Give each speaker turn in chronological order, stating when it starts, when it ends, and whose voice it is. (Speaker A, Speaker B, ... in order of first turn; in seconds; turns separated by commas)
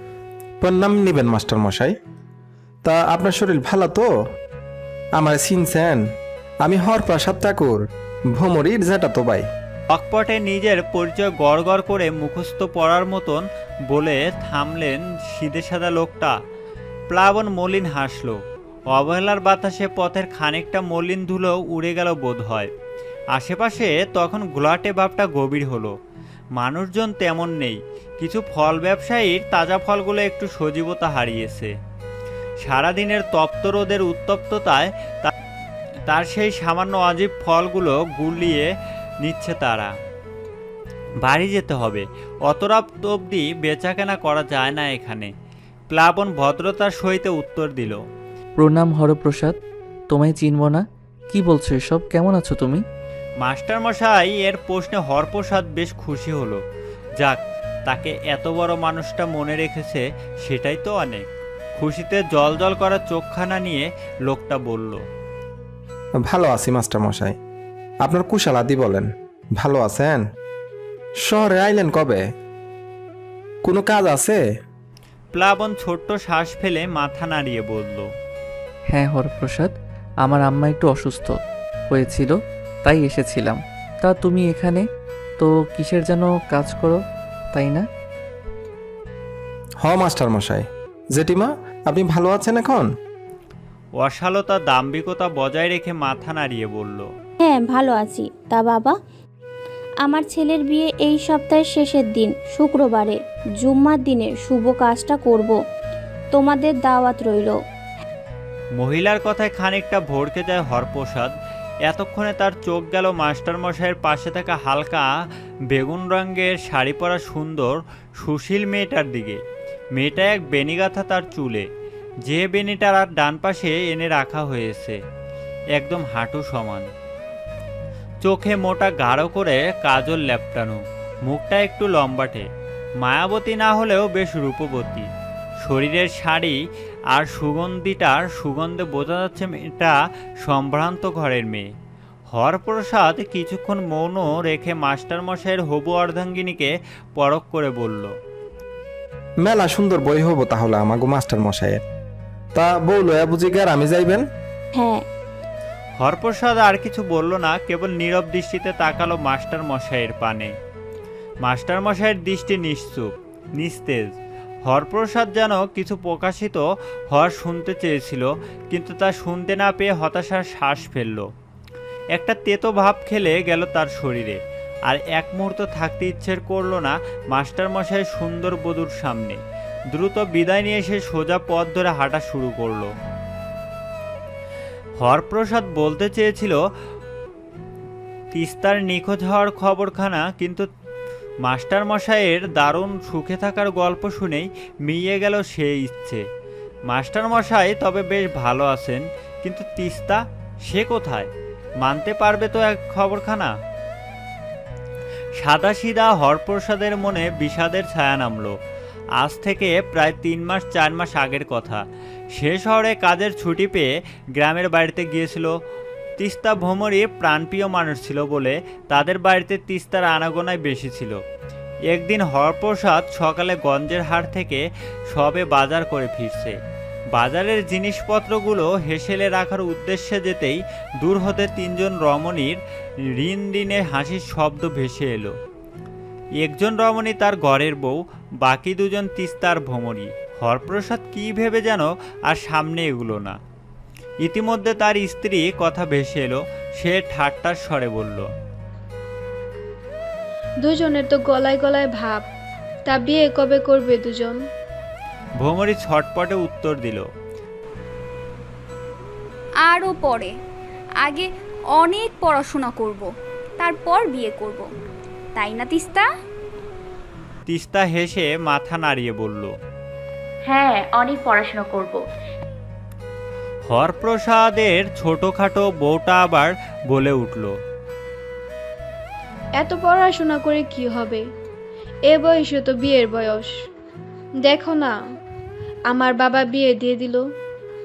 Speaker A: 0.6-1.9, Speaker A: 2.9-4.1, Speaker A: 5.2-6.0, Speaker A: 6.7-7.8, Speaker A: 8.3-9.4, Speaker B: 9.9-16.4, Speaker B: 17.1-18.4, Speaker B: 18.9-22.7, Speaker B: 23.4-25.9, Speaker B: 26.6-31.7, Speaker B: 32.6-35.3, Speaker B: 36.1-38.7, Speaker B: 39.2-39.9, Speaker B: 41.2-45.3, Speaker B: 45.9-48.0, Speaker C: 48.6-49.6, Speaker C: 50.1-52.8, Speaker B: 53.4-56.6, Speaker B: 57.2-61.2, Speaker B: 61.8-65.0, Speaker A: 66.3-67.4, Speaker A: 68.0-70.2, Speaker A: 71.2-72.2, Speaker A: 73.7-74.4, Speaker B: 75.3-78.1, Speaker C: 78.9-84.8, Speaker C: 85.4-87.0, Speaker C: 87.5-87.8, Speaker A: 89.8-92.9, Speaker B: 94.0-97.1, Speaker D: 97.4-98.9, Speaker D: 100.0-105.5, Speaker D: 106.3-107.5, Speaker B: 108.8-111.3, Speaker B: 111.9-115.1, Speaker B: 115.7-119.4, Speaker B: 120.0-121.7, Speaker B: 122.2-125.0, Speaker B: 125.8-126.9, Speaker B: 128.2-132.5, Speaker B: 133.0-135.1, Speaker B: 135.6-136.6, Speaker B: 137.1-141.7, Speaker B: 142.3-148.1, Speaker A: 149.4-151.8, Speaker A: 152.6-154.2, Speaker D: 154.8-155.0, Speaker B: 156.0-160.5, Speaker B: 161.4-164.1, Speaker B: 164.7-171.3, Speaker B: 172.2-179.4, Speaker B: 179.9-182.9, Speaker B: 185.0-186.6, Speaker B: 188.3-190.7, Speaker B: 191.4-196.2, Speaker B: 196.9-201.3, Speaker B: 201.8-203.5, Speaker B: 205.4-208.6, Speaker B: 209.2-211.8, Speaker B: 212.3-215.5, Speaker B: 216.2-221.2, Speaker B: 221.9-226.6, Speaker B: 227.1-232.6, Speaker B: 233.1-235.4, Speaker B: 236.4-243.4, Speaker B: 244.2-248.3, Speaker E: 250.6-252.2, Speaker E: 252.9-254.4, Speaker B: 255.4-257.1, Speaker F: 259.6-260.3, Speaker F: 261.0-263.1, Speaker F: 263.6-264.7, Speaker F: 265.4-266.1, Speaker B: 267.5-269.5, Speaker B: 273.7-277.5, Speaker E: 279.6-281.2, Speaker E: 282.1-283.5, Speaker E: 284.4-284.9, Speaker E: 285.9-287.2